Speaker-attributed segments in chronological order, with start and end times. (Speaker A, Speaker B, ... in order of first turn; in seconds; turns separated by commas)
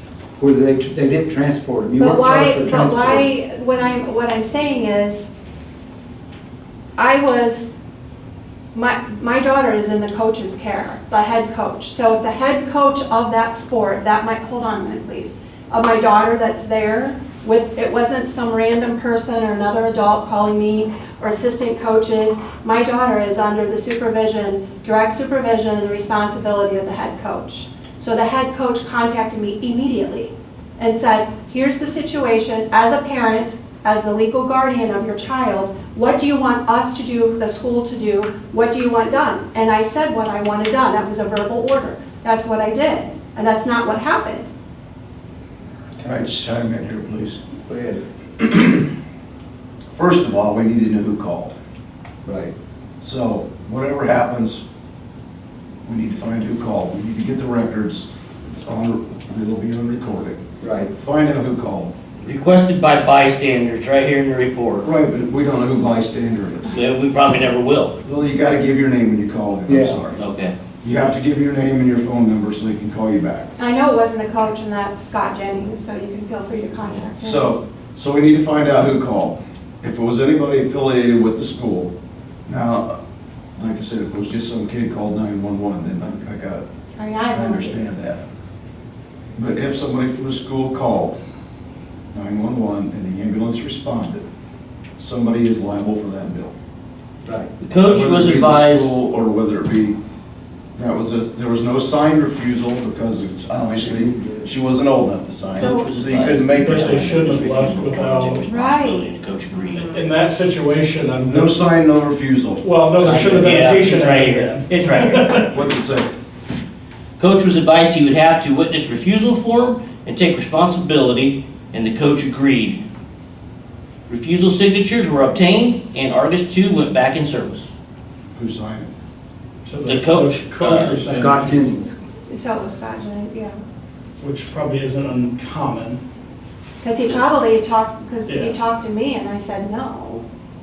Speaker A: 0.4-3.3, Speaker B: 2.0-5.3, Speaker B: 7.0-7.7, Speaker B: 8.7-44.5, Speaker C: 46.0-47.6, Speaker A: 47.7-48.0, Speaker C: 48.4-48.9, Speaker C: 49.9-51.5, Speaker A: 52.2-52.5, Speaker C: 53.0-54.6, Speaker C: 55.9-61.9, Speaker A: 60.6-60.9, Speaker D: 62.2-64.9, Speaker C: 64.8-66.8, Speaker D: 66.7-68.0, Speaker C: 68.0-70.2, Speaker A: 69.7-70.0, Speaker D: 70.2-70.5, Speaker C: 70.8-73.5, Speaker B: 73.6-77.5, Speaker C: 77.2-81.9, Speaker C: 82.5-83.0, Speaker C: 83.6-86.7, Speaker B: 87.0-87.8, Speaker C: 87.3-88.2, Speaker C: 89.4-91.2, Speaker C: 92.1-94.2, Speaker C: 95.0-96.5, Speaker A: 97.2-97.5, Speaker D: 97.6-99.0, Speaker C: 97.8-100.0, Speaker C: 100.8-107.0, Speaker A: 103.8-104.5, Speaker D: 105.5-110.0, Speaker B: 105.5-105.9, Speaker E: 106.5-108.5, Speaker B: 108.5-109.1, Speaker E: 109.7-111.5, Speaker C: 111.3-112.6, Speaker E: 112.6-115.5, Speaker D: 113.0-115.5, Speaker C: 115.5-116.1, Speaker D: 117.2-122.8, Speaker D: 124.1-127.7, Speaker C: 128.3-128.9, Speaker E: 129.7-131.8, Speaker D: 129.8-131.1, Speaker A: 131.1-131.9, Speaker B: 132.3-133.6, Speaker E: 134.2-136.0, Speaker B: 136.8-140.2, Speaker E: 138.3-138.6